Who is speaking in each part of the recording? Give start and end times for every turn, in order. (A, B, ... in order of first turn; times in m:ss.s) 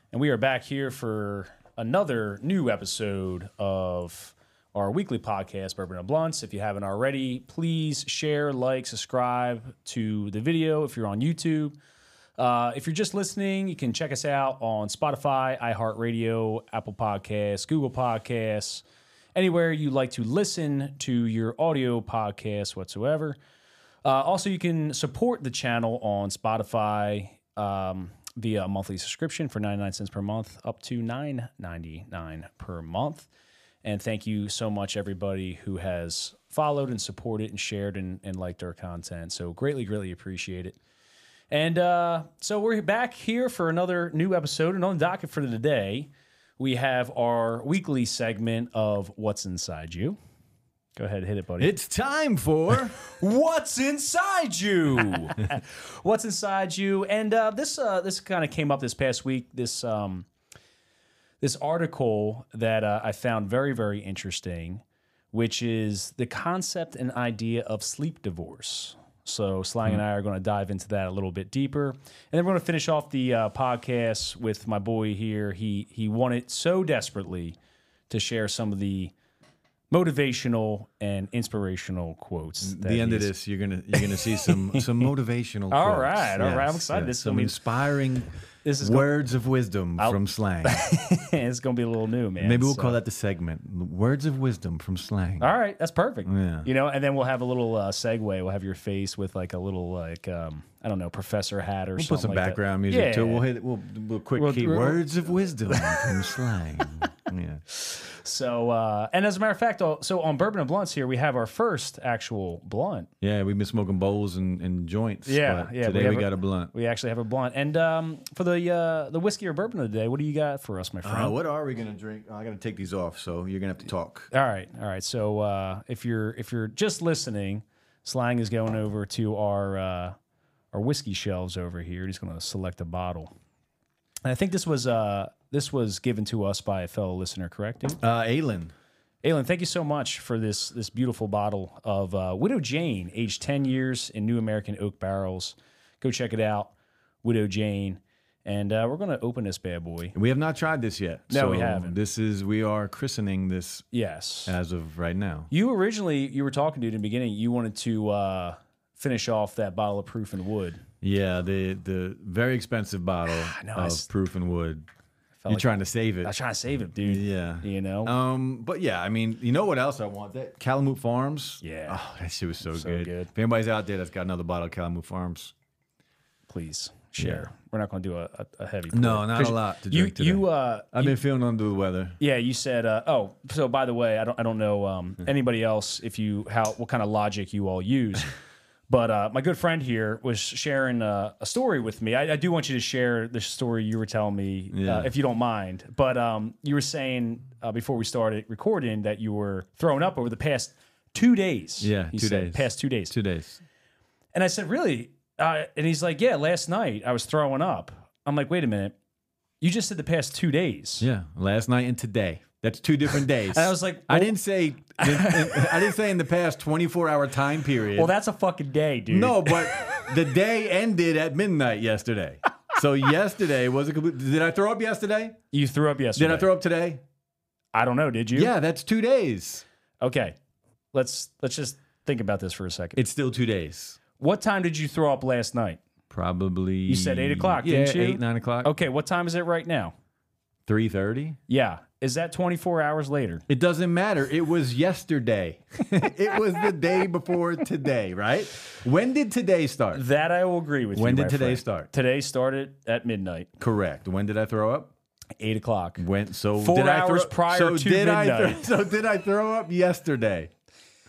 0:00.1-0:11.7 A
0:12.4-0:18.8 A
0:19.3-0:23.4 A
0:24.0-0:33.3 A
0:33.8-0:40.8 A
0:41.5-0:50.2 A
0:51.0-0:51.8 A
0:51.6-0:53.0 B
0:53.0-1:00.3 A
1:01.4-1:17.6 A
1:18.1-1:19.1 A
1:19.9-1:23.3 A
1:22.6-1:30.8 B
1:23.9-1:25.1 A
1:25.7-1:27.6 A
1:28.6-1:29.2 A
1:30.0-1:33.0 A
1:32.4-1:35.5 B
1:35.4-1:43.5 A
1:36.2-1:36.7 B
1:42.0-1:47.6 B
1:44.4-1:46.3 A
1:47.7-1:53.1 A
1:53.2-1:56.7 B
1:55.2-2:01.4 A
2:01.0-2:04.3 B
2:04.3-2:10.2 A
2:10.7-2:13.3 A
2:14.2-2:18.0 A
2:18.0-2:18.7 B
2:19.2-2:30.1 A
2:30.1-2:33.8 B
2:31.3-2:32.0 A
2:33.9-2:34.5 A
2:34.4-2:35.5 B
2:35.5-2:40.8 A
2:41.0-2:44.9 B
2:43.3-2:44.1 A
2:45.4-2:45.7 A
2:45.5-2:46.3 B
2:46.2-2:48.1 A
2:47.0-2:55.5 B
2:51.6-2:52.0 A
2:52.6-2:53.3 A
2:56.5-3:01.2 A
2:57.2-2:57.4 B
2:58.9-3:02.2 B
3:02.2-3:08.3 A
3:08.9-3:23.1 A
3:14.7-3:15.1 B
3:21.8-3:23.6 B
3:24.3-3:28.9 A
3:29.6-3:31.0 A
3:31.0-3:38.1 B
3:33.4-3:34.4 A
3:35.0-3:35.9 A
3:37.9-3:40.1 A
3:39.1-3:45.4 B
3:45.5-3:46.5 A
3:46.2-3:47.0 B
3:47.7-3:48.5 A
3:48.3-3:49.6 B
3:50.0-3:50.4 A
3:50.9-3:53.0 A
3:52.9-3:54.0 B
3:54.2-3:55.8 A
3:56.1-3:58.7 B
3:56.9-3:59.9 A
4:00.6-4:01.4 B
4:01.5-4:03.4 A
4:03.5-4:10.0 B
4:09.9-4:13.5 A
4:10.9-4:11.9 B
4:13.6-4:14.9 B
4:15.4-4:16.0 A
4:16.0-4:20.5 B
4:16.6-4:18.6 A